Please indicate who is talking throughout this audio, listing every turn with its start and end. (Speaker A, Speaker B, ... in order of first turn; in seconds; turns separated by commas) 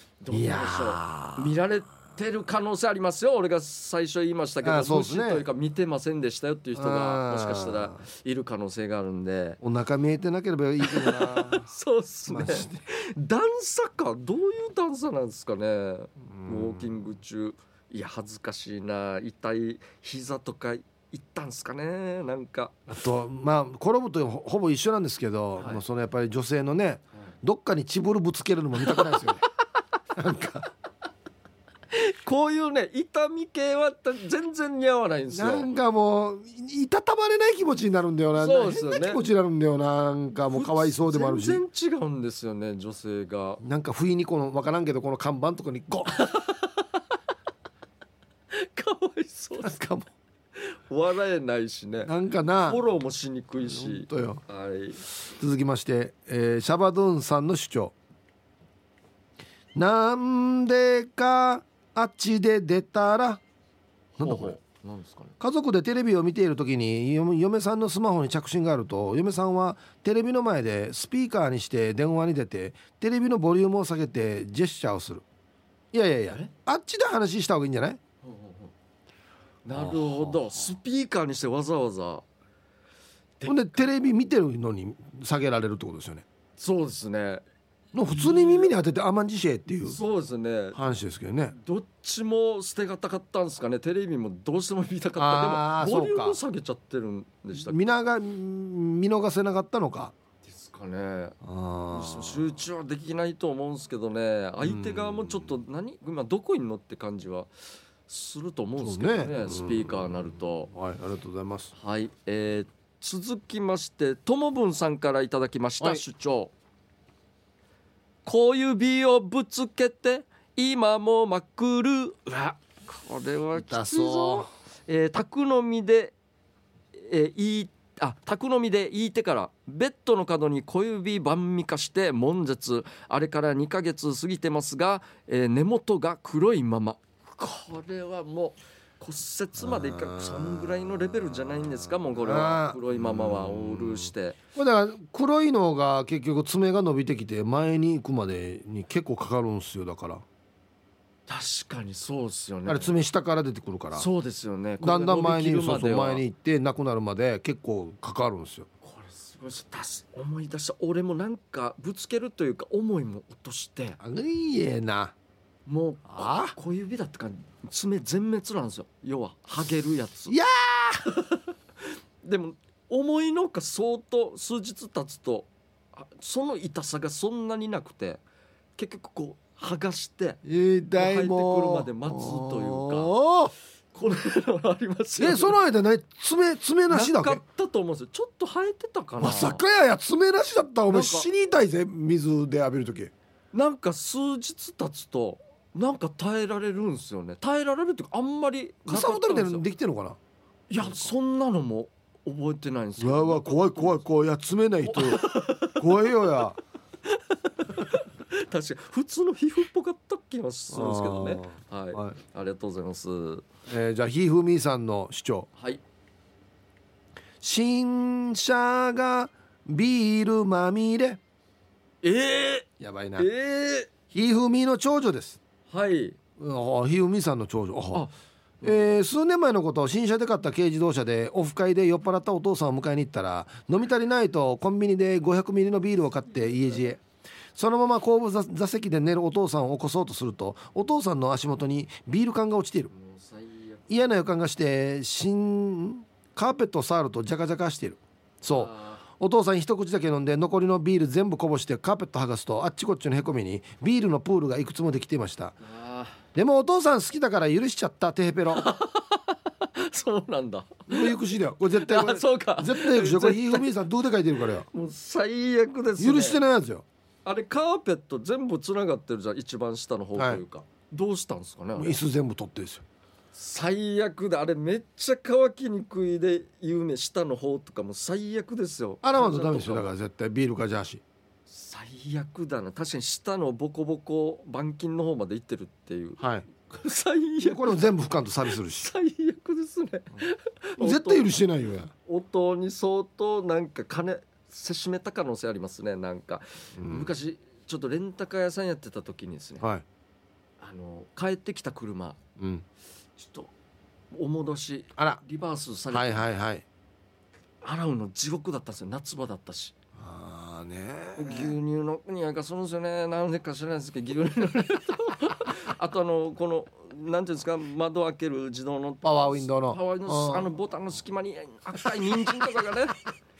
Speaker A: 0.2-9.6, Speaker B: 0.3-1.6, Speaker B: 4.6-5.4, Speaker B: 6.7-8.0, Speaker B: 9.6-11.7, Speaker A: 10.8-22.8, Speaker B: 12.3-12.8, Speaker B: 16.3-16.9, Speaker B: 22.9-29.4, Speaker A: 28.9-29.1, Speaker B: 30.1-30.7, Speaker A: 31.9-35.7, Speaker B: 35.3-41.6, Speaker A: 38.4-39.2, Speaker A: 40.5-43.6, Speaker B: 43.6-46.2, Speaker A: 46.1-46.9, Speaker A: 48.5-49.8, Speaker B: 49.6-50.1, Speaker A: 50.5-52.1, Speaker B: 52.0-52.8, Speaker A: 52.6-55.0, Speaker B: 53.6-54.4, Speaker B: 55.3-57.9, Speaker B: 59.7-63.4, Speaker A: 64.2-65.3, Speaker B: 64.2-64.6, Speaker B: 65.4-75.2, Speaker B: 75.9-78.0, Speaker A: 78.2-78.7, Speaker A: 79.6-82.2, Speaker B: 79.7-80.4, Speaker A: 83.4-83.8, Speaker B: 83.5-86.2, Speaker A: 86.6-87.4, Speaker B: 87.9-90.0, Speaker A: 88.1-88.7, Speaker A: 89.8-90.8, Speaker B: 90.7-91.5, Speaker A: 91.5-97.8, Speaker B: 95.2-96.4, Speaker B: 97.5-100.1, Speaker A: 100.4-101.4, Speaker B: 101.4-102.5, Speaker A: 101.9-107.5, Speaker B: 104.6-105.5, Speaker A: 108.1-110.7, Speaker B: 108.8-110.2, Speaker B: 110.7-111.7, Speaker A: 111.8-116.5, Speaker A: 118.2-126.1, Speaker B: 123.5-124.5, Speaker A: 127.0-144.3, Speaker B: 139.6-150.2, Speaker A: 151.3-152.9, Speaker B: 152.7-154.1, Speaker A: 153.9-156.2, Speaker B: 154.8-158.7, Speaker A: 158.8-164.0, Speaker B: 164.0-165.1, Speaker A: 165.7-170.3, Speaker B: 166.1-166.5, Speaker B: 170.3-171.1, Speaker A: 171.1-171.4, Speaker A: 172.2-178.2, Speaker A: 178.8-180.4, Speaker B: 180.4-183.5, Speaker A: 181.0-183.1, Speaker A: 183.9-185.6, Speaker B: 185.2-187.4, Speaker A: 186.9-189.6, Speaker B: 189.2-193.1, Speaker A: 190.9-191.3, Speaker A: 193.5-199.6, Speaker B: 198.8-200.2, Speaker A: 200.7-204.0, Speaker B: 200.8-201.1, Speaker B: 203.0-206.6, Speaker A: 204.8-205.8, Speaker A: 207.1-213.4, Speaker B: 210.7-212.2, Speaker B: 213.7-215.5, Speaker A: 215.6-215.8, Speaker B: 217.4-221.2, Speaker A: 222.0-223.9, Speaker B: 222.8-223.3, Speaker B: 224.1-225.4, Speaker A: 225.7-226.2, Speaker B: 226.4-228.1, Speaker A: 227.9-228.9, Speaker B: 228.6-237.0, Speaker B: 237.5-242.9, Speaker A: 242.9-244.1, Speaker B: 243.9-255.6, Speaker A: 248.5-249.0, Speaker A: 255.6-256.2, Speaker B: 256.3-258.7, Speaker A: 258.5-261.2, Speaker B: 260.9-264.7, Speaker A: 261.7-263.7, Speaker A: 264.7-266.4, Speaker B: 266.0-266.8, Speaker A: 267.2-272.0, Speaker B: 270.1-270.4, Speaker B: 271.8-272.8, Speaker A: 273.3-279.9, Speaker B: 279.0-281.0, Speaker A: 281.5-287.8, Speaker B: 286.2-286.4, Speaker B: 287.4-288.9, Speaker A: 288.7-291.3, Speaker B: 290.8-291.9, Speaker A: 292.1-299.6, Speaker B: 296.8-297.1, Speaker A: 300.6-302.2, Speaker B: 302.4-302.6, Speaker A: 303.2-303.5, Speaker A: 304.1-306.3, Speaker B: 304.9-305.2, Speaker B: 305.9-306.6, Speaker A: 307.6-309.7, Speaker B: 310.0-311.5, Speaker A: 311.1-323.0, Speaker B: 319.0-320.5, Speaker B: 321.8-322.3